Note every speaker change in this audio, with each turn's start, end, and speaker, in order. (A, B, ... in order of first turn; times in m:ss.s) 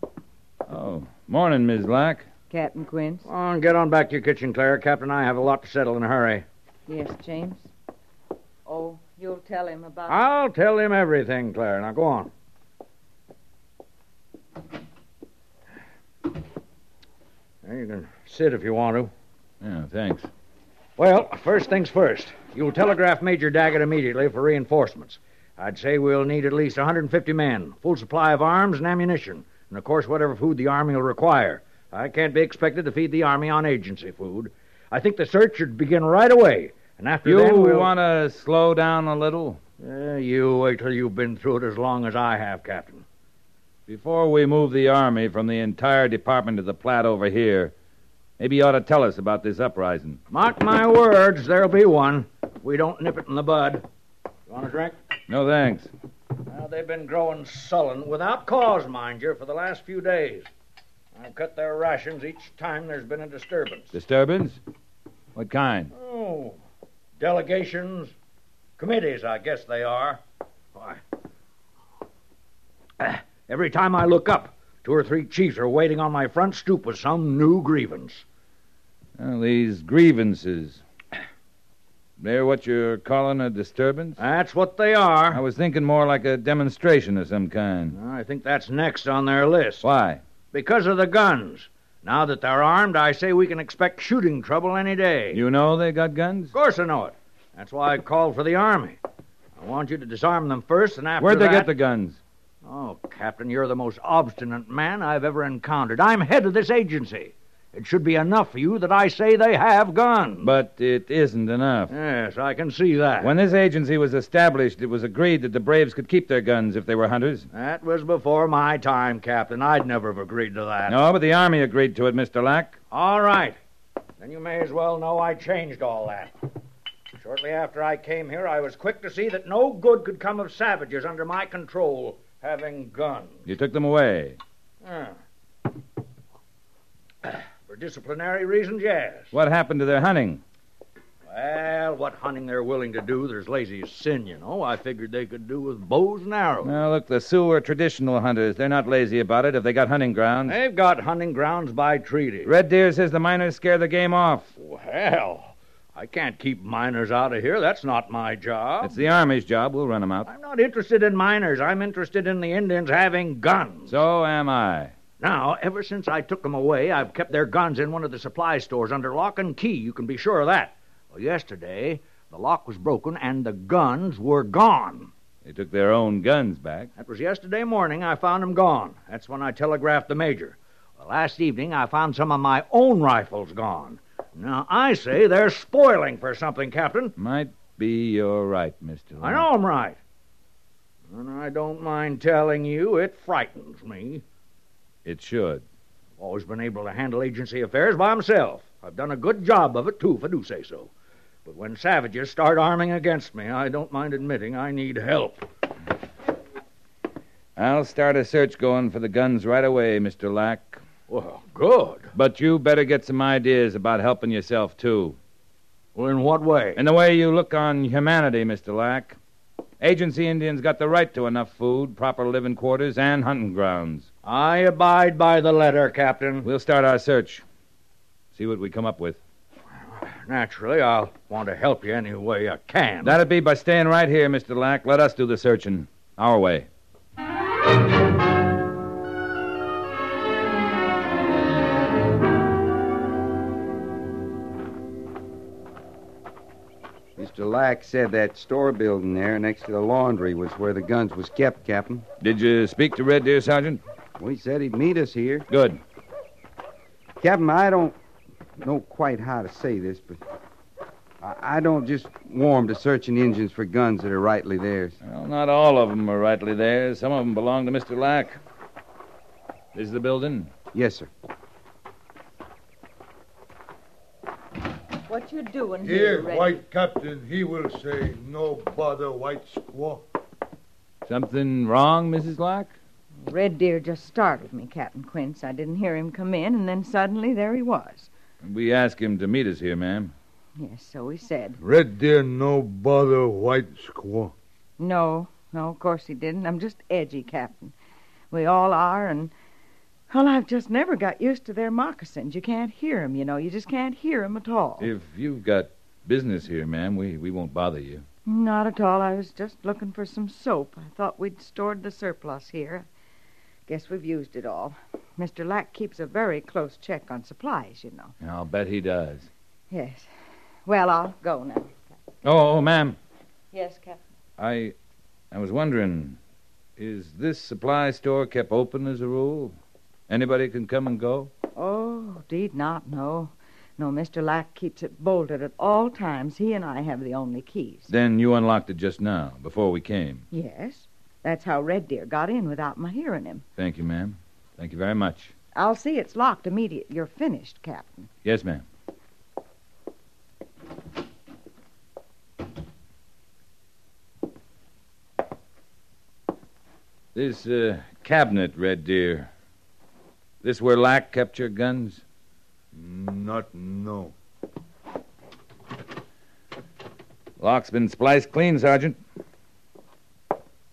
0:00.7-0:02.3 A
0:02.5-0:03.3 B
0:03.2-0:06.4 C
0:06.9-0:07.7 B
0:08.6-0:10.2 B
0:10.1-0:12.3 C
0:17.6-0:19.1 C
0:19.6-0:20.3 A
0:21.0-0:37.9 C
0:37.2-0:39.6 A
0:39.8-0:43.0 C
0:43.9-0:47.7 A
0:48.4-0:50.2 A
0:50.3-0:53.8 C
0:54.5-0:55.0 C
0:55.3-0:55.9 A
0:56.5-1:00.5 C
1:01.1-1:03.9 C
1:03.9-1:04.6 A
1:05.3-1:05.9 A
1:05.9-1:06.6 C
1:07.2-1:08.1 C
1:08.8-1:10.2 C
1:10.7-1:11.0 C
1:13.0-1:18.2 C
1:19.2-1:20.8 A
1:22.2-1:24.2 A
1:24.2-1:25.4 C
1:25.3-1:28.0 A
1:27.9-1:29.8 C
1:29.8-1:30.2 A
1:30.5-1:35.4 C
1:35.3-1:36.5 A
1:36.5-1:39.0 C
1:39.6-1:41.7 C
1:41.2-1:42.2 A
1:42.6-1:50.5 C
1:50.4-1:51.9 A
1:51.9-1:53.3 C
1:53.2-1:57.5 A
1:57.5-2:01.0 C
2:00.9-2:02.8 A
2:02.9-2:03.6 C
2:04.2-2:06.4 C
2:07.2-2:13.4 C
2:13.4-2:14.4 A
2:14.8-2:15.2 C
2:17.3-2:19.3 C
2:19.3-2:20.4 A
2:21.3-2:26.8 C
2:26.6-2:30.6 A
2:30.4-2:32.5 C
2:32.4-2:34.5 A
2:34.6-2:39.0 C
2:38.8-2:40.3 A
2:40.2-2:44.0 C
2:43.9-2:44.9 A
2:45.2-2:55.1 C
2:55.4-2:56.9 A
2:57.0-3:07.1 C
3:07.2-3:09.5 A
3:09.2-3:10.0 C
3:11.1-3:14.2 C
3:15.0-3:15.6 A
3:16.2-3:20.9 C
3:21.4-3:25.4 C
3:27.6-3:30.8 A
3:31.1-3:32.1 C
3:32.1-3:35.2 A
3:35.9-3:36.8 C
3:36.8-3:39.2 A
3:39.8-3:44.1 A
3:44.2-3:46.5 C
3:46.4-3:47.4 A
3:48.3-3:49.2 A
3:50.0-3:53.2 C
3:53.0-3:56.7 A
4:07.2-4:12.0 D
4:12.2-4:13.8 A
4:14.2-4:15.4 D
4:15.5-4:15.8 A
4:17.2-4:17.9 D
4:18.6-4:20.0 D
4:21.2-4:24.9 D
4:25.0-4:28.4 A
4:29.7-4:30.5 A
4:30.7-4:31.1 D
4:35.1-4:36.6 B
4:35.8-4:40.0 E
4:41.0-4:42.7 A
4:43.2-4:48.1 B
4:48.4-4:50.1 A
4:50.6-4:51.6 B
4:51.6-4:54.3 E
4:54.8-4:57.7 B
4:58.3-4:59.3 B
5:00.1-5:04.9 B
5:04.8-5:08.0 A
5:08.2-5:12.9 B
5:13.7-5:18.1 B
5:18.2-5:19.3 A
5:19.7-5:20.1 B
5:20.6-5:21.8 B
5:22.2-5:23.0 A
5:23.5-5:24.0 B
5:24.4-5:24.7 A
5:25.3-5:26.2 A
5:26.8-5:29.6 A
5:30.1-5:31.3 A
5:31.5-5:37.9 B
5:37.9-5:40.2 A
5:40.3-5:43.4 B
5:43.6-5:45.3 A
5:45.5-5:48.1 B
5:48.2-5:48.6 A
5:57.1-5:59.3 A
6:00.4-6:02.0 A
6:02.7-6:04.1 E
6:07.4-6:09.0 A